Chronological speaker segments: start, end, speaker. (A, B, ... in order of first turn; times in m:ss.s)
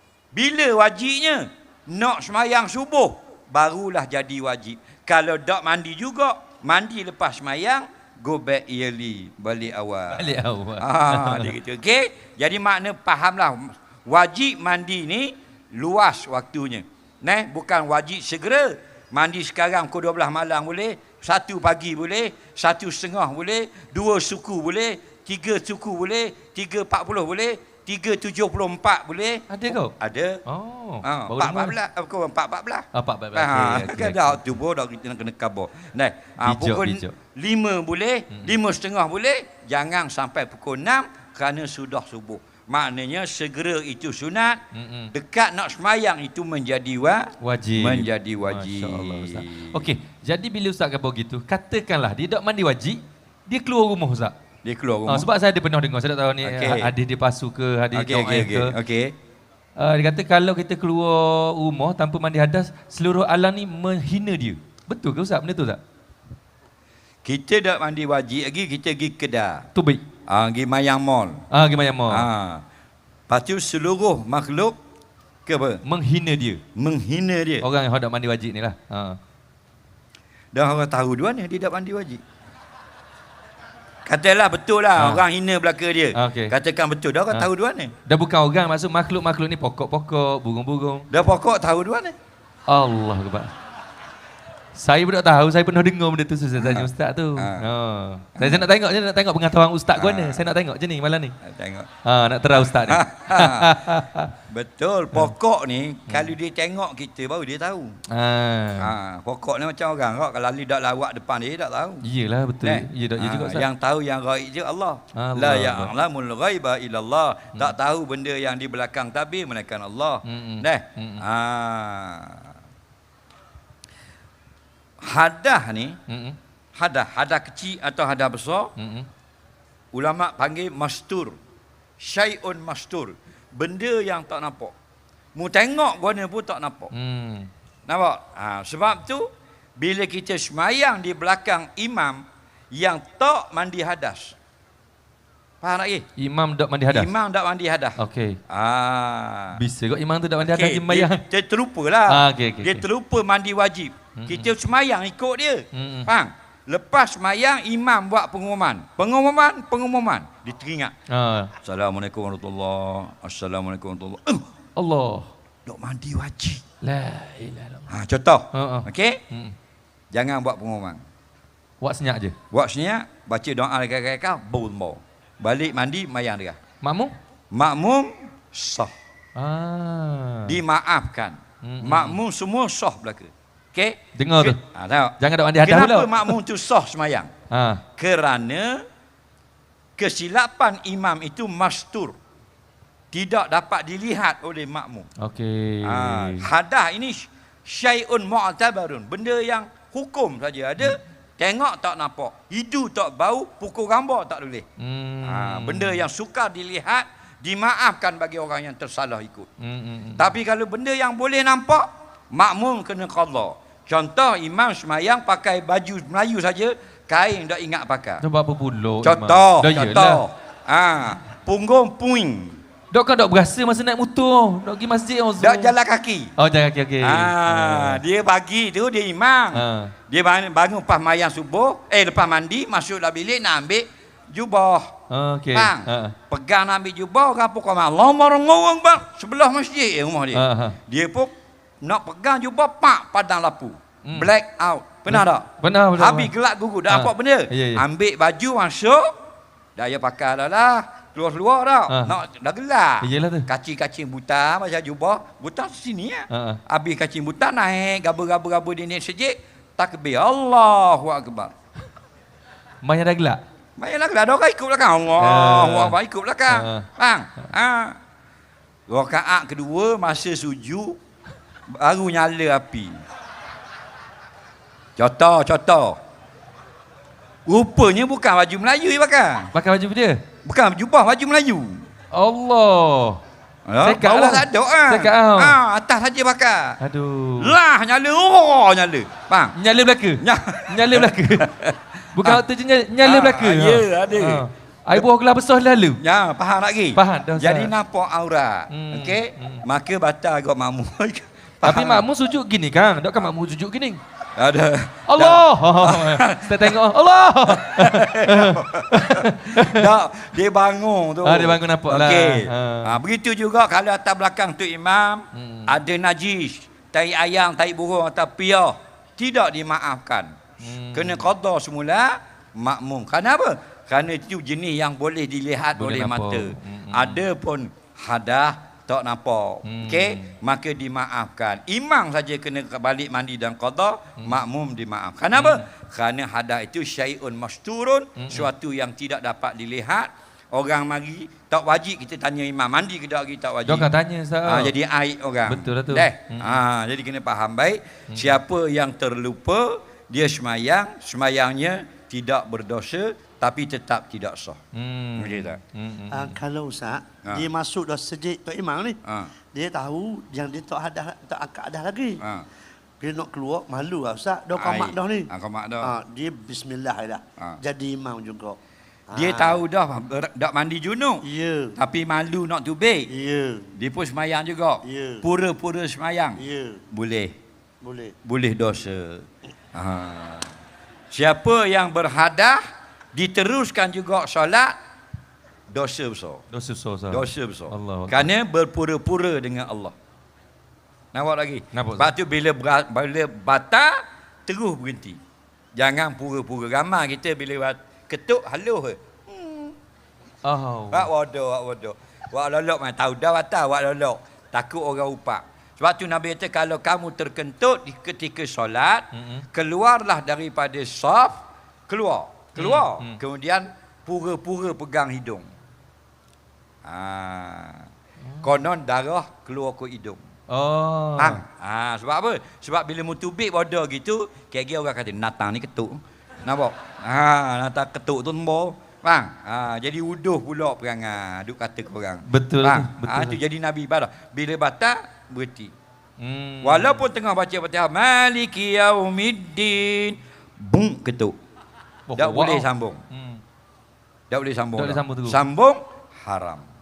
0:00.3-0:30.4 A
0:10.1-0:11.5 B
0:29.5-0:29.9 B
0:30.4-0:31.8 B
0:31.0-0:44.6 A
0:32.9-0:34.4 B
0:36.4-0:37.1 B
0:44.7-0:45.1 B
0:45.1-0:49.9 A
0:47.4-0:54.3 B
0:54.6-0:55.3 A
0:55.1-0:58.7 B
0:56.4-0:56.9 A
0:57.9-0:59.1 A
0:59.8-1:05.8 B
1:07.2-1:09.7 A
1:09.7-1:10.0 B
1:10.3-1:11.4 A
1:11.5-1:12.2 B
1:12.1-1:12.6 A
1:13.3-1:14.8 A
1:15.4-1:15.8 A
1:15.8-1:16.6 B
1:16.7-1:17.6 A
1:17.6-1:19.2 B
1:20.5-1:22.2 A
1:24.0-1:27.9 A
1:25.0-1:25.2 B
1:26.1-1:26.5 B
1:28.0-1:31.1 B
1:31.1-1:32.2 A
1:32.7-1:33.5 B
1:34.7-1:41.3 B
1:36.6-1:37.7 A
1:38.4-1:38.6 A
1:40.0-1:40.5 A
1:41.4-1:41.9 A
1:42.0-1:44.3 B
1:42.7-1:43.8 A
1:44.5-1:48.0 A
1:48.1-1:48.9 B
1:48.8-1:52.0 A
1:52.0-1:53.6 B
1:52.6-2:02.4 A
1:55.1-1:55.9 B
2:00.2-2:01.2 B
2:05.0-2:06.0 A
2:06.1-2:06.4 B
2:06.8-2:08.7 A
2:08.8-2:09.1 B
2:09.9-2:11.4 A
2:12.0-2:14.7 A
2:15.3-2:16.9 A
2:16.9-2:17.5 B
2:17.9-2:24.4 A
2:25.6-2:26.0 A
2:26.2-2:27.1 B
2:26.9-2:29.6 A
2:28.0-2:28.4 B
2:29.5-2:31.2 B
2:30.4-2:40.9 A
2:32.1-2:32.8 B
2:34.2-2:34.5 B
2:35.7-2:36.1 B
2:41.1-2:41.5 B
2:41.6-2:44.4 A
2:44.8-2:45.3 B
2:45.6-2:46.6 A
2:46.8-2:47.8 B
2:47.9-2:49.2 A
2:48.5-2:49.5 B
2:50.1-2:51.0 A
2:51.8-2:52.4 B
2:52.5-2:56.6 A
2:56.8-2:57.1 B
2:57.5-2:58.9 A
2:59.4-3:00.6 B
3:00.4-3:07.3 A
3:01.6-3:02.2 B
3:04.1-3:04.6 B
3:05.2-3:06.3 B
3:07.5-3:07.8 B
3:08.0-3:08.8 A
3:10.0-3:12.1 A
3:13.1-3:15.1 A
3:15.2-3:16.5 B
3:15.8-3:24.6 A
3:24.8-3:26.0 B
3:25.2-3:29.5 A
3:29.6-3:30.2 B
3:30.2-3:38.2 A
3:38.2-3:40.2 B
3:39.0-3:42.6 A
3:42.9-3:45.7 B
3:45.4-3:46.3 A
3:46.4-3:48.0 B
3:47.0-3:54.9 A
3:49.5-3:49.9 B
3:55.1-3:56.2 B
3:55.5-4:01.3 A
4:00.3-4:00.8 B
4:01.8-4:09.1 A
4:04.0-4:04.3 B
4:05.1-4:06.3 B
4:06.9-4:07.8 B
4:09.8-4:21.5 A
4:11.9-4:12.2 B
4:13.0-4:13.5 B
4:16.3-4:16.6 B
4:22.8-4:23.4 B
4:23.8-4:28.0 A
4:25.2-4:26.0 B
4:26.5-4:26.9 B
4:28.9-4:31.0 A
4:31.7-4:32.9 A
4:35.0-4:36.0 A
4:37.4-4:39.5 A
4:39.5-4:40.2 B
4:40.4-4:41.8 A
4:42.1-4:43.2 B
4:43.7-4:46.8 A
4:43.8-4:45.6 B
4:46.8-4:47.5 B
4:47.4-4:49.5 A
4:49.6-4:51.5 B
4:50.2-4:52.4 A
4:52.1-4:56.0 B
4:53.0-4:55.0 A
4:56.0-5:02.0 A
4:56.9-4:57.7 B
4:58.7-4:59.6 B
5:01.6-5:04.0 B
5:04.4-5:06.8 A
5:05.1-5:09.9 B
5:07.5-5:43.9 A
5:11.2-5:13.0 B
5:15.3-5:15.7 B
5:20.6-5:21.2 B
5:25.8-5:27.2 B
5:29.6-5:30.3 B
5:35.3-5:35.6 B
5:38.2-5:38.5 B
5:43.6-5:44.7 B
5:44.4-5:54.6 A
5:45.5-5:46.6 B
5:54.7-5:56.4 B
5:55.2-5:55.6 A
5:56.1-5:59.0 C
5:59.0-5:59.3 A
5:59.5-6:02.2 C
6:02.2-6:02.4 A
6:03.0-6:05.3 C
6:04.5-6:05.9 A
6:05.8-6:08.6 C
6:09.1-6:09.6 C
6:09.1-6:11.2 A
6:11.2-6:11.7 C
6:11.8-6:13.1 A
6:13.1-6:13.7 C
6:13.7-6:17.3 A
6:14.8-6:15.2 C
6:16.4-6:16.8 C
6:17.8-6:18.1 C
6:18.2-6:20.5 A
6:21.1-6:22.6 A
6:23.1-6:24.7 A
6:25.7-6:26.4 A
6:26.5-6:28.3 B
6:27.1-6:29.9 A
6:31.1-6:33.9 A
6:31.7-6:32.1 B
6:34.4-6:35.2 A
6:35.8-6:39.7 A
6:40.4-6:41.1 B
6:40.9-6:55.4 A
6:49.1-6:49.4 B
6:52.5-6:53.2 B
6:56.8-6:57.8 A
6:58.4-7:00.2 A
7:00.5-7:01.4 B
7:01.2-7:15.7 A
7:12.3-7:13.4 B
7:16.2-7:17.0 B
7:16.6-7:21.3 A
7:22.1-7:23.4 B
7:22.2-7:23.0 A
7:24.3-7:26.6 A
7:24.8-7:25.4 B